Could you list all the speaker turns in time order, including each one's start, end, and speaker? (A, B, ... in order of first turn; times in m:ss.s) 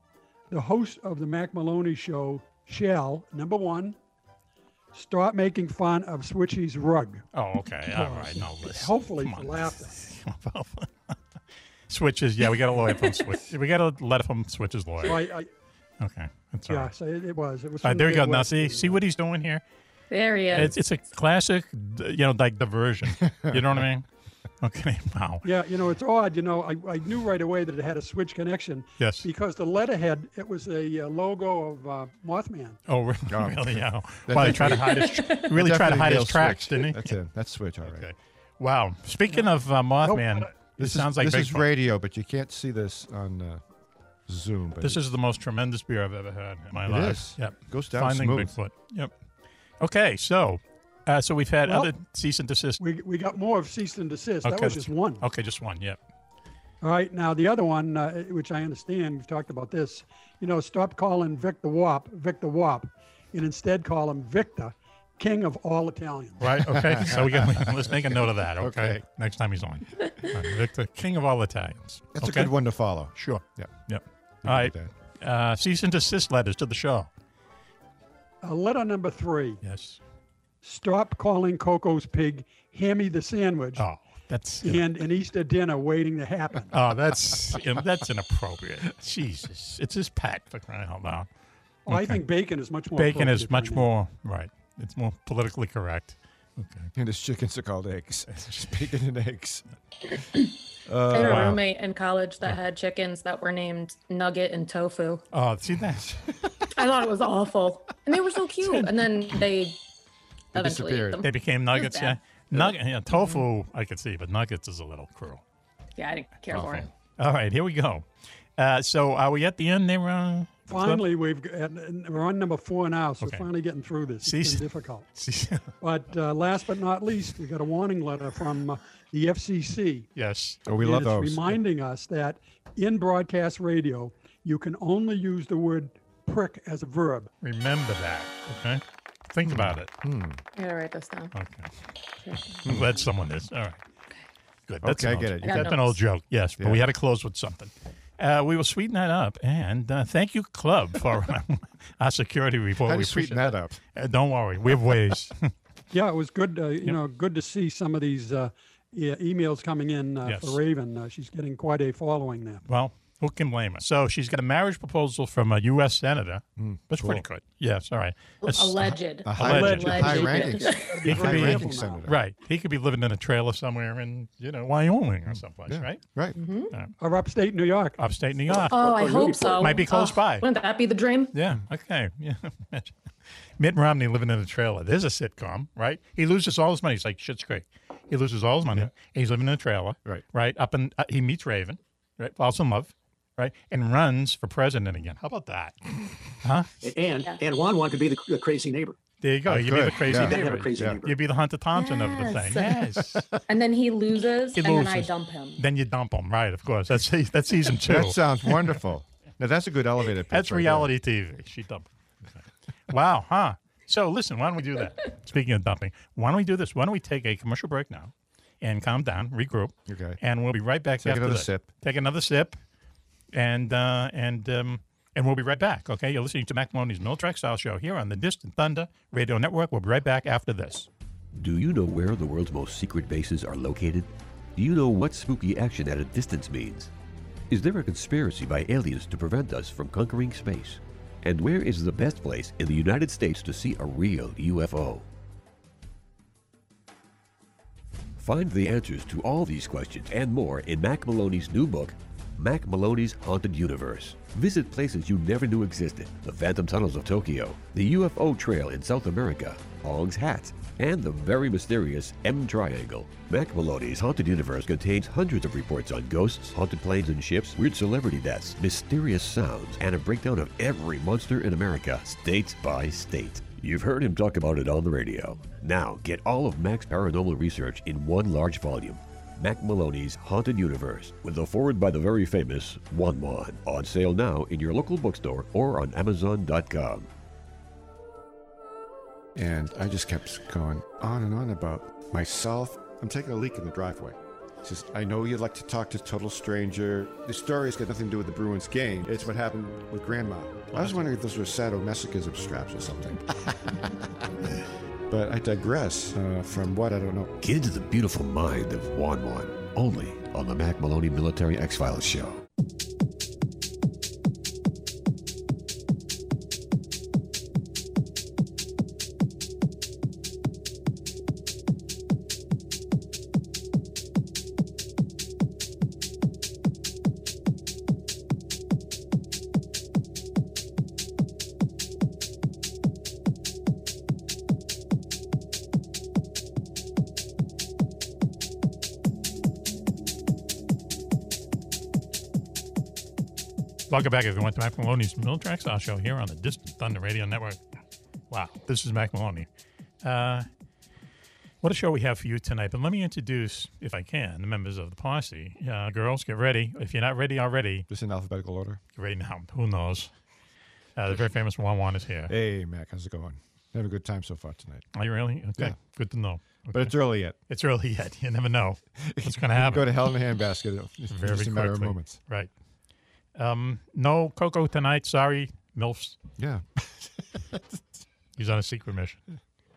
0:00.5-0:04.0 A
0:04.9-0:07.2 A
0:07.3-0:11.1 B
0:07.9-0:09.9 A
0:11.9-0:15.2 B
0:15.0-0:15.5 A
0:16.0-0:16.9 B
0:16.7-0:19.0 A
0:17.8-0:19.6 B
0:20.1-0:20.7 C
0:20.5-0:24.0 B
0:23.2-0:23.8 D
0:24.6-0:25.5 B
0:25.4-0:32.8 A
0:29.0-0:29.3 B
0:32.9-0:37.2 B
0:33.3-0:38.1 D
0:37.8-0:41.7 B
0:40.0-0:40.5 A
0:40.8-0:43.6 D
0:44.3-0:45.0 D
0:44.8-0:49.1 B
0:46.9-0:48.5 D
0:49.8-0:52.8 B
0:51.6-0:51.9 A
0:52.8-0:55.2 A
0:54.4-0:56.0 B
0:56.8-1:06.6 A
1:06.4-1:12.5 B
1:06.8-1:09.0 D
1:12.1-1:13.7 D
1:13.1-1:17.1 B
1:14.4-1:14.9 D
1:18.4-1:19.6 A
1:19.6-1:20.0 B
1:20.6-1:23.9 A
1:23.8-1:24.8 B
1:24.6-1:26.7 A
1:26.7-1:31.3 B
1:31.8-1:33.9 A
1:31.9-1:32.2 B
1:33.0-1:36.9 B
1:36.9-1:39.6 D
1:38.3-1:38.7 B
1:40.8-1:41.6 D
1:41.1-1:45.2 C
1:41.1-1:41.6 B
1:45.3-1:46.2 B
1:46.7-1:49.8 C
1:50.5-1:51.2 D
1:50.5-1:52.2 C
1:51.2-1:55.4 B
1:56.0-1:56.9 C
1:56.5-1:56.8 D
1:56.5-1:58.0 B
1:58.6-2:01.0 B
2:00.7-2:05.1 A
2:03.2-2:03.4 B
2:04.2-2:05.7 B
2:05.8-2:10.1 A
2:10.1-2:10.6 B
2:10.6-2:11.6 D
2:10.8-2:17.3 A
2:17.4-2:19.9 B
2:19.4-2:20.4 D
2:20.6-2:21.3 C
2:21.3-2:21.7 B
2:22.2-2:22.6 C
2:22.6-2:23.8 B
2:22.6-2:23.0 D
2:24.7-2:35.4 B
2:24.8-2:25.9 D
2:25.4-2:26.0 C
2:26.6-2:26.8 D
2:32.8-2:33.8 D
2:35.9-2:42.6 A
2:40.2-2:40.6 B
2:42.7-2:50.5 B
2:46.6-2:47.2 D
2:48.5-2:50.9 C
2:49.2-2:52.2 D
2:49.4-2:52.0 A
2:51.0-2:56.0 B
2:55.3-2:56.4 D
2:56.4-2:56.7 C
2:57.0-2:58.0 A
2:58.0-3:00.4 B
2:58.5-2:59.7 E
2:58.7-3:01.3 C
3:01.3-3:02.9 B
3:03.6-3:16.7 B
3:16.8-3:19.0 E
3:19.2-3:23.3 B
3:19.4-3:21.0 D
3:20.0-3:21.2 E
3:21.7-3:22.8 C
3:23.5-3:25.6 C
3:24.6-3:28.7 B
3:27.8-3:30.9 D
3:30.3-3:42.6 B
3:39.9-3:40.2 D
3:41.0-3:41.7 D
3:43.3-3:50.9 B
3:51.4-3:56.9 F
3:57.5-4:05.0 F
4:08.2-4:47.1 F
4:49.3-5:03.9 D
5:00.7-5:01.1 B
5:05.1-5:07.3 D
5:07.4-5:12.4 F
5:43.9-5:47.6 B
5:48.3-5:49.5 B
5:50.0-5:50.4 B
5:51.6-5:57.9 B
5:57.9-5:58.8 D
5:59.0-6:00.1 B
6:01.0-6:02.3 B
6:02.3-6:04.8 D
6:04.9-6:09.8 B
6:06.7-6:07.4 D
6:09.0-6:12.2 D
6:11.1-6:12.5 B
6:13.4-6:16.2 B
6:16.4-6:17.8 D
6:18.4-6:19.2 B